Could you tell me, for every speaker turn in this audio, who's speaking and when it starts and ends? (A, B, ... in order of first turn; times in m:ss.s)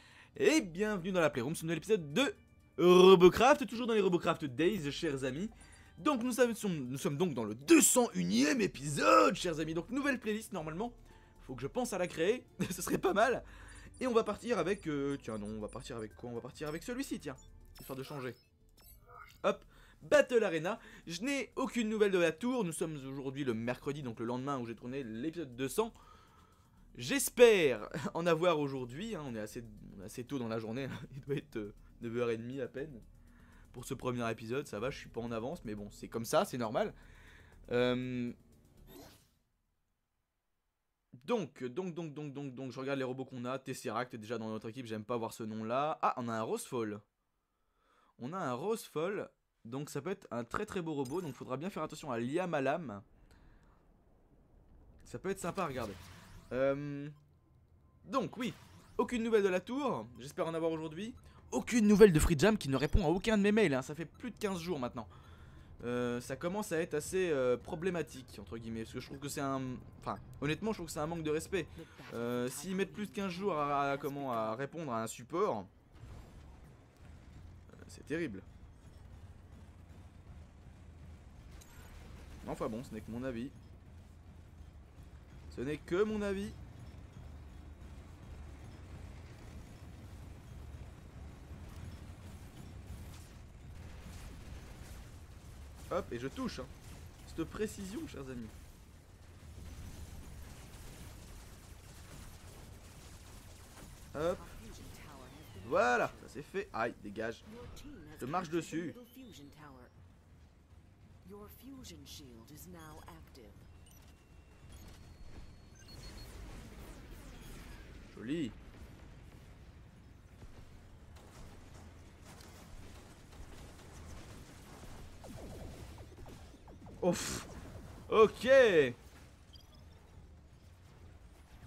0:00.3-0:13.4 A
0:14.0-0:18.4 A
0:19.4-0:25.9 A
0:26.9-0:33.0 A
0:33.7-0:37.0 A
0:37.7-0:38.3 A
0:41.2-0:47.0 A
0:48.2-0:53.0 A
0:55.0-0:56.0 A
0:56.5-0:57.1 A
0:58.0-1:05.1 A
1:05.8-1:15.7 A
1:11.7-1:14.7 B
1:17.8-1:18.4 A
1:22.4-1:23.5 A
1:25.5-1:26.6 A
1:35.9-1:36.7 A
1:37.2-1:38.5 A
1:44.1-1:44.5 A
1:44.2-1:46.3 B
1:45.6-1:47.4 A
1:47.4-1:49.9 B
1:48.2-1:49.0 A
1:51.2-1:53.7 B
1:58.1-1:58.5 A
2:07.0-2:07.5 A
2:08.1-2:09.0 A